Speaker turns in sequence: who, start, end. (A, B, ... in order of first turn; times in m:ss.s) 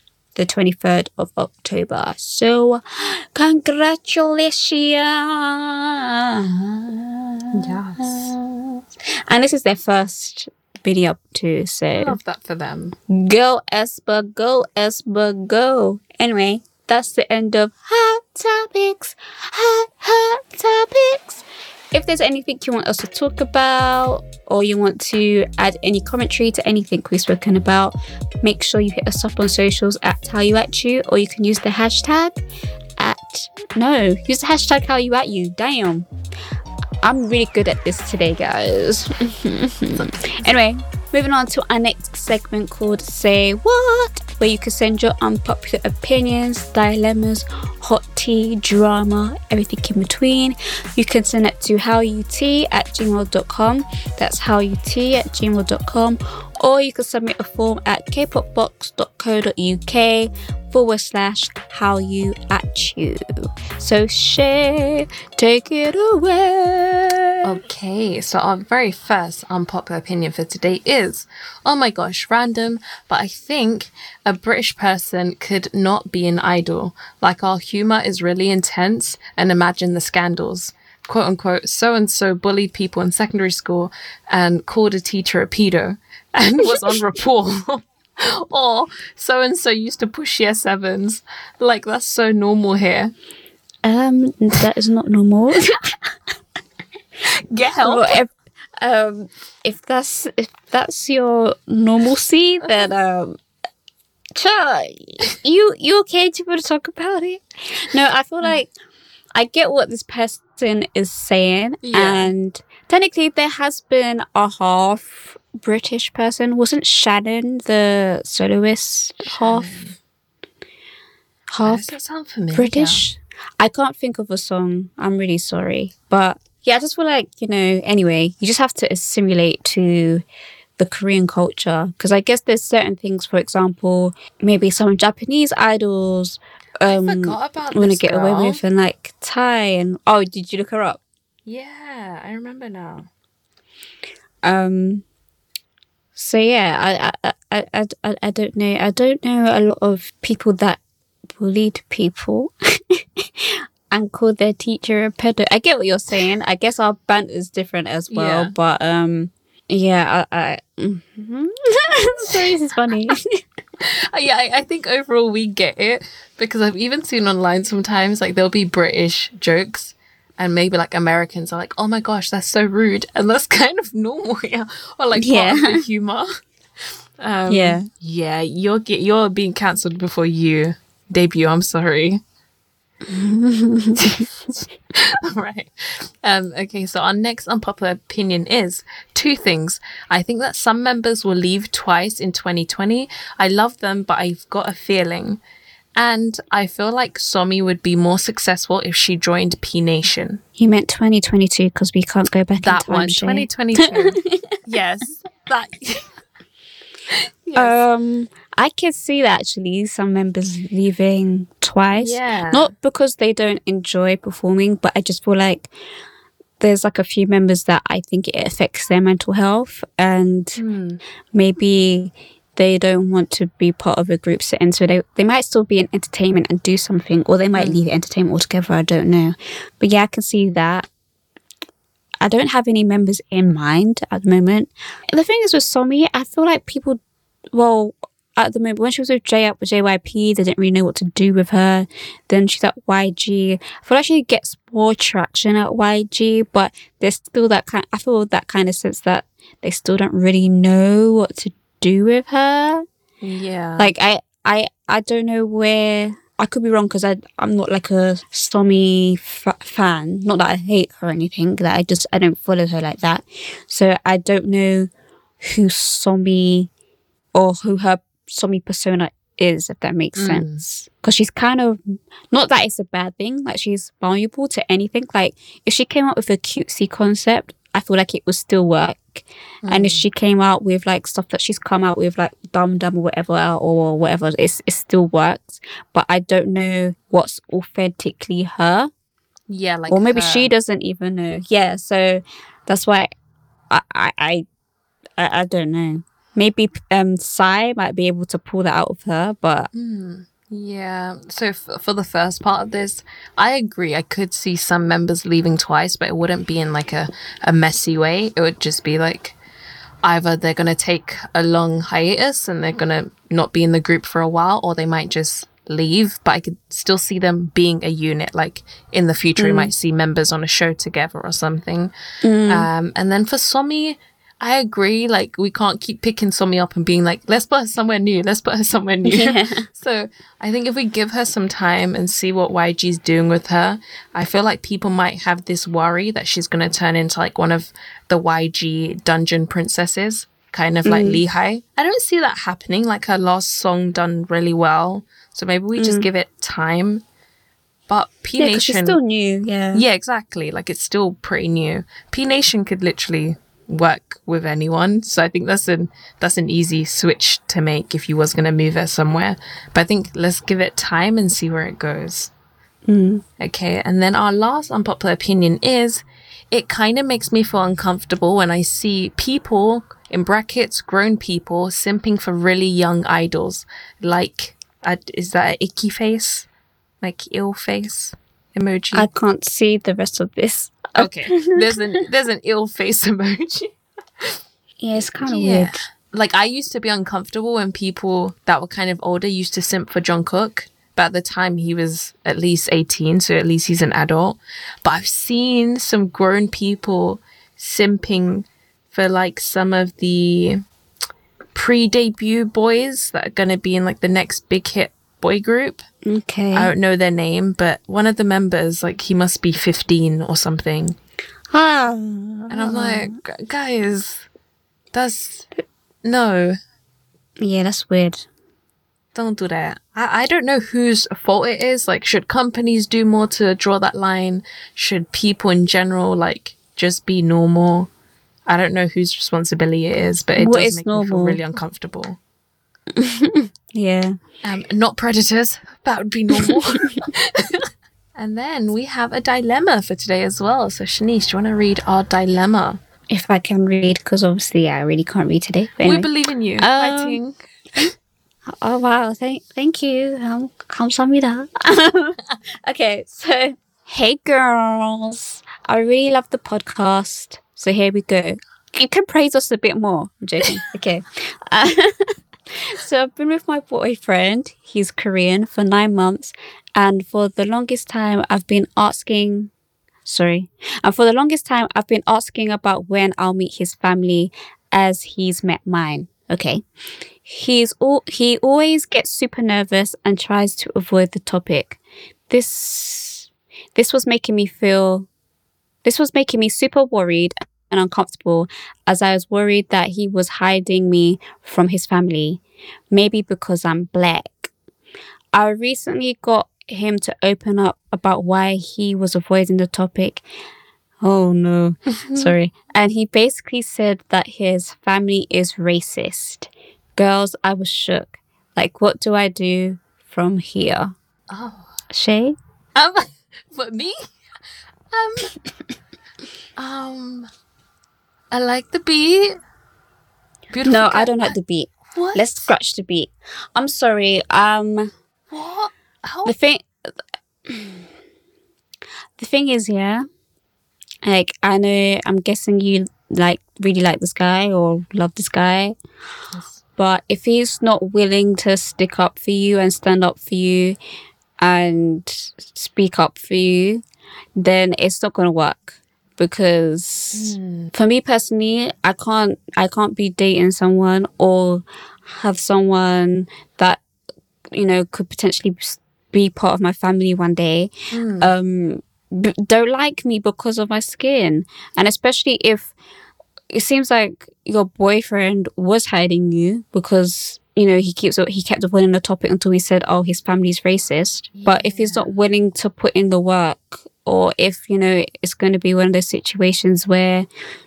0:00.3-0:12.2 A
0:07.5-0:08.3 B
0:11.9-0:13.0 B
0:13.1-0:32.4 A
0:33.0-0:36.0 A
0:37.0-1:07.3 A
0:39.9-0:40.5 B
1:07.4-1:33.1 B
1:33.8-1:35.9 A
1:37.3-1:38.2 B
1:37.8-1:43.4 A
1:44.4-1:48.7 A
1:49.3-1:59.8 A
1:51.8-1:52.3 B
1:59.3-2:00.0 B
2:01.5-2:02.0 A
2:01.6-2:03.0 B
2:02.5-2:10.2 A
2:10.8-2:21.0 A
2:16.8-2:18.6 B
2:21.4-2:23.1 B
2:24.4-2:25.0 A
2:26.2-2:30.8 A
2:31.4-2:43.4 A
2:38.1-2:38.5 B
2:43.8-2:56.3 B
2:55.2-2:55.8 A
2:57.2-3:02.2 B
2:57.5-2:57.9 A
3:03.0-3:04.2 A
3:04.0-3:04.3 B
3:04.9-3:15.4 B
3:16.0-3:20.4 B
3:20.6-3:24.5 A
3:22.6-3:26.1 B
3:27.4-3:27.8 B
3:27.5-3:35.7 A
3:31.9-3:32.7 B
3:36.6-3:40.6 A
3:40.6-3:41.0 B
3:41.3-3:50.9 A
3:47.5-3:47.9 B
3:52.2-3:57.0 A
3:57.5-4:12.8 A
4:13.2-4:13.9 B
4:13.8-4:24.9 A
4:25.4-4:26.7 A
4:27.3-4:31.8 A
4:30.2-4:30.6 B
4:32.3-4:48.9 A
4:39.6-4:40.0 B
4:49.5-4:50.5 B
4:49.9-4:53.1 A
4:53.7-4:54.4 A
4:55.2-4:59.7 A
4:59.7-5:09.4 B
5:10.0-5:21.9 B
5:19.4-5:19.7 A
5:22.2-5:22.7 A
5:22.4-5:47.0 B
5:29.0-5:29.6 A
5:40.8-5:41.2 A
5:45.8-5:46.1 A
5:47.9-5:49.0 B
5:48.4-5:49.8 A
5:49.7-6:02.3 B
6:02.9-6:03.2 A
6:03.4-6:16.5 B
6:17.0-6:19.1 B
6:18.9-6:22.0 A
6:21.0-6:24.3 B
6:24.8-6:25.8 A
6:25.1-6:40.6 B
6:41.5-6:45.8 B
6:46.0-6:46.7 A
6:46.5-6:51.0 B
6:51.5-6:53.2 A
6:52.5-6:54.2 B
6:54.9-6:55.5 B
6:56.0-6:56.6 B
6:57.4-6:58.2 A
6:59.1-7:07.9 B
7:08.5-7:12.2 B
7:10.4-7:11.4 A
7:13.0-7:14.2 A
7:14.4-7:22.8 B
7:23.1-7:27.2 A
7:25.8-7:27.4 B
7:28.5-7:49.5 A
7:50.0-7:56.6 A
7:57.2-8:05.1 A
8:05.8-8:14.5 A
8:15.3-8:20.2 A
8:21.0-8:30.9 A
8:22.0-8:22.3 B
8:31.3-8:31.7 B
8:31.9-8:32.4 A
8:32.7-8:34.0 B
8:34.9-8:35.3 B
8:36.6-8:37.3 B
8:38.3-8:39.4 B
8:40.5-8:41.3 B
8:40.6-8:44.9 A
8:41.9-8:42.5 B
8:45.3-8:46.3 B
8:46.2-8:46.7 A
8:47.5-8:47.8 A
8:49.2-8:50.0 A
8:51.0-8:55.8 A
8:56.3-8:56.6 B
8:56.8-9:00.8 A
9:01.4-9:03.8 A
9:04.4-9:13.8 A
9:07.1-9:07.7 B
9:14.5-9:22.7 A
9:17.9-9:18.3 B
9:23.5-9:37.3 A
9:31.3-9:32.1 B